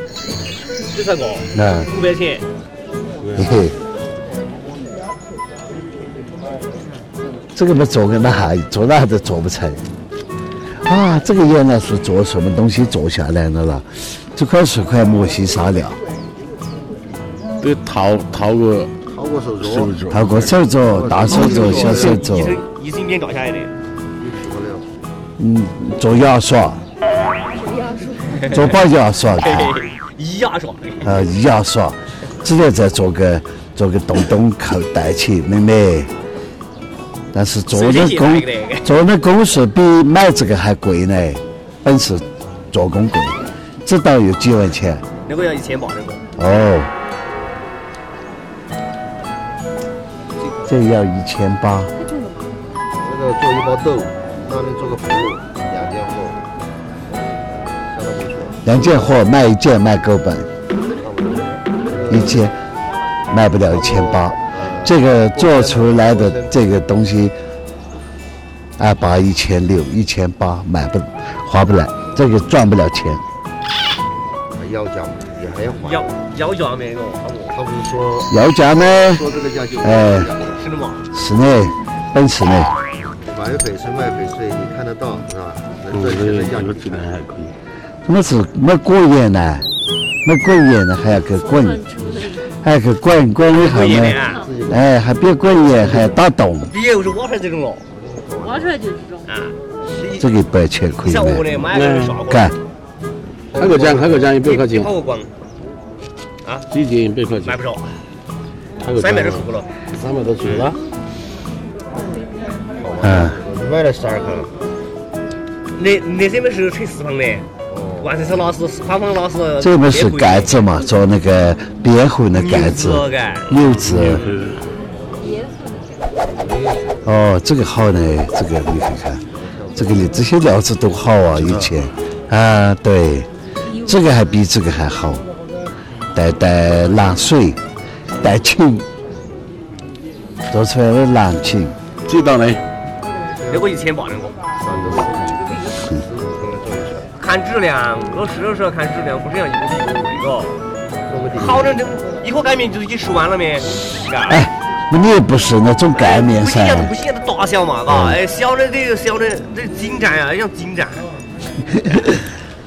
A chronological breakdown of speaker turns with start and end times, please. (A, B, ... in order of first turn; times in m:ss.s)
0:00.9-0:02.4 A
0:01.5-0:01.9 B
0:03.2-0:03.5 C
0:03.3-0:03.8 B
0:07.5-0:09.8 B
0:10.8-0:16.0 B
0:17.6-0:18.9 C
0:19.0-0:20.0 D
0:19.6-0:20.5 C
0:20.1-0:22.6 B
0:20.8-0:22.2 D
0:21.3-0:23.7 A
0:24.2-0:24.9 D
0:25.4-0:26.8 B
0:27.6-0:28.2 E
0:28.2-0:28.8 A
0:28.4-0:29.8 B
0:29.3-0:31.1 A
0:31.0-0:36.1 B
0:37.3-0:45.0 B
0:37.7-0:38.9 A
0:45.2-0:46.2 A
0:46.4-0:46.9 B
0:50.6-0:51.9 B
0:52.9-0:56.4 D
0:57.1-0:58.6 D
0:58.6-1:00.5 B
1:00.9-1:02.5 D
1:02.1-1:02.6 B
1:03.3-1:07.3 B
1:03.7-1:06.6 D
1:08.8-1:13.2 B
1:14.5-1:16.1 D
1:15.8-1:17.6 A
1:17.5-1:18.4 D
1:18.3-1:19.2 B
1:19.1-1:20.6 D
1:19.8-1:20.3 B
1:20.6-1:21.1 A
1:21.1-1:22.7 B
1:23.2-1:27.1 D
1:25.9-1:27.5 C
1:28.0-1:29.7 B
1:30.2-1:31.8 B
1:31.4-1:32.4 E
1:32.5-1:36.7 B
1:33.5-1:34.4 A
1:34.3-1:34.9 D
1:35.7-1:36.1 D
1:36.6-1:37.8 A
1:37.9-1:38.8 D
1:38.4-1:39.2 E
1:39.2-1:40.3 A
1:40.2-1:41.4 B
1:41.0-1:42.6 A
1:41.7-1:42.2 C
1:42.3-1:42.5 B
1:43.5-1:44.4 D
1:43.6-1:44.9 C
1:44.4-1:45.3 A
1:46.7-1:47.6 C
1:47.4-1:48.0 A
1:48.8-1:49.4 C
1:48.9-1:49.7 A
1:49.9-1:50.8 C
1:52.8-1:54.5 D
1:53.0-1:53.4 B
1:55.7-1:57.5 A
1:57.7-1:58.1 D
1:58.0-2:00.8 A
1:59.6-2:04.2 B
2:02.3-2:03.6 A
2:04.0-2:04.6 C
2:06.2-2:07.1 D
2:07.0-2:15.2 B
2:09.3-2:10.2 D
2:16.1-2:17.6 B
2:18.2-2:18.9 B
2:20.5-2:21.8 B
2:22.0-2:22.6 C
2:23.4-2:23.7 D
2:23.5-2:24.4 A
2:24.5-2:27.1 D
2:27.2-2:30.6 A
2:31.1-2:31.8 D
2:31.3-2:34.5 A
2:34.3-2:36.9 B
2:35.9-2:41.1 A
2:37.9-2:38.2 B
2:41.8-2:42.0 B